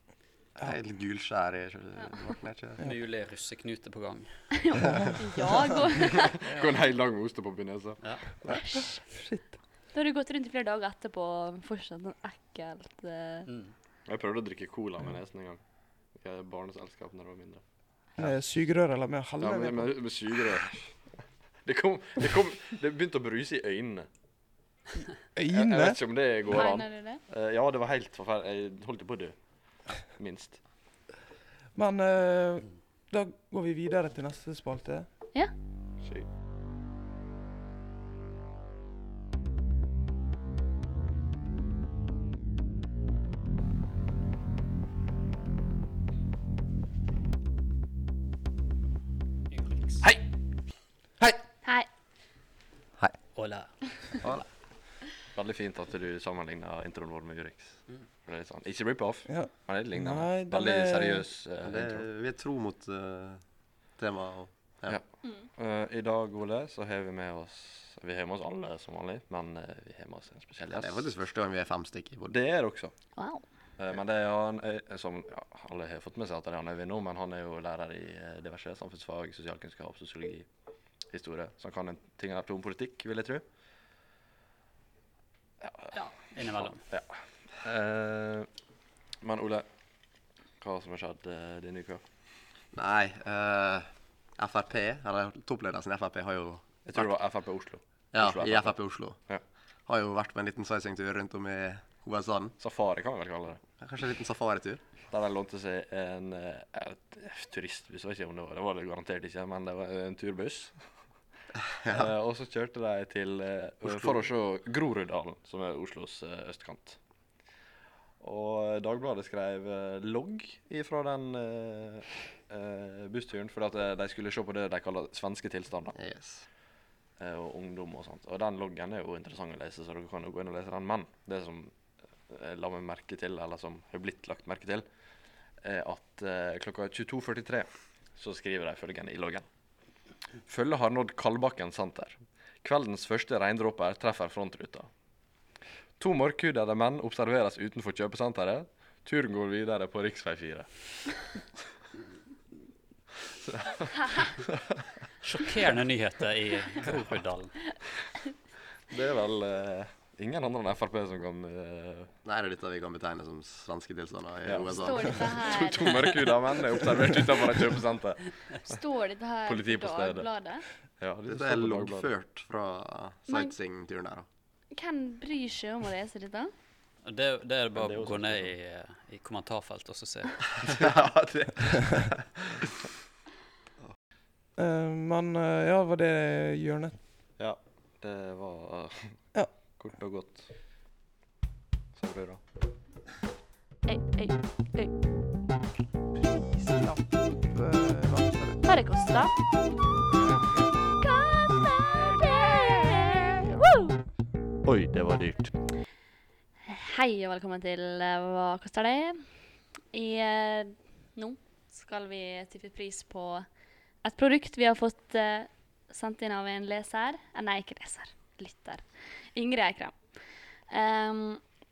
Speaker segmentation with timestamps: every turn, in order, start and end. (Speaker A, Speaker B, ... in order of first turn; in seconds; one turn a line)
Speaker A: 0.6-2.8
Speaker B: 2.8-4.5
Speaker C: 4.5-6.3
Speaker D: 4.8-5.2
Speaker E: 6.1-8.0
Speaker C: 8.5-9.0
Speaker D: 9.0-9.5
Speaker C: 9.9-13.5
Speaker B: 13.4-13.7
Speaker E: 14.1-15.6
Speaker E: 16.1-17.6
Speaker D: 18.2-19.9
Speaker E: 19.4-20.9
Speaker E: 21.6-24.1
Speaker D: 25.3-26.0
Speaker E: 25.5-29.4
Speaker C: 26.5-27.2
Speaker E: 29.9-30.6
Speaker D: 31.7-35.1
Speaker B: 49.5-50.0
Speaker B: 53.3-53.7
Speaker E: 55.3-62.0
Speaker D: 59.3-61.2
Speaker A: 61.6-63.4
Speaker A: 64.0-65.0
Speaker E: 64.9-71.0
Speaker A: 70.7-72.3
Speaker E: 72.3-72.9
Speaker C: 73.2-73.4
Speaker E: 73.8-80.5
Speaker E: 81.1-83.4
Speaker E: 85.6-85.9
Speaker B: 86.3-86.8
Speaker E: 86.6-88.5
Speaker E: 89.2-89.7
Speaker E: 90.6-92.0
Speaker A: 92.7-93.9
Speaker A: 94.4-97.1
Speaker E: 96.8-99.4
Speaker A: 98.1-99.2
Speaker A: 99.9-102.5
Speaker E: 102.6-103.6
Speaker A: 103.8-104.8
Speaker E: 105.1-110.7
Speaker A: 111.8-112.1
Speaker E: 111.9-117.0
Speaker E: 118.2-126.0
Speaker A: 125.9-126.4
Speaker E: 127.2-131.7
Speaker E: 132.3-134.8
Speaker E: 135.6-139.4
Speaker E: 140.5-144.9
Speaker E: 146.0-150.7
Speaker E: 153.4-154.6
Speaker B: 155.2-157.5
Speaker E: 158.9-162.1
Speaker A: 162.2-165.2
Speaker E: 164.4-168.3
Speaker C: 164.7-166.2
Speaker C: 168.6-170.6
Speaker E: 169.4-170.3
Speaker E: 171.0-172.1
Speaker A: 171.3-174.2
Speaker C: 173.3-173.5
Speaker C: 174.7-176.5
Speaker B: 177.0-180.6
Speaker E: 177.7-178.5
Speaker E: 180.6-182.7
Speaker D: 184.6-187.0
Speaker E: 187.4-189.2
Speaker E: 189.8-190.5
Speaker E: 191.9-192.4
Speaker C: 193.8-194.9
Speaker D: 196.2-198.6
Speaker C: 198.6-199.3
Speaker C: 201.0-204.0
Speaker E: 204.6-205.5
Speaker C: 206.6-209.2
Speaker C: 209.9-213.4
Speaker C: 214.0-220.0
Speaker C: 220.7-221.4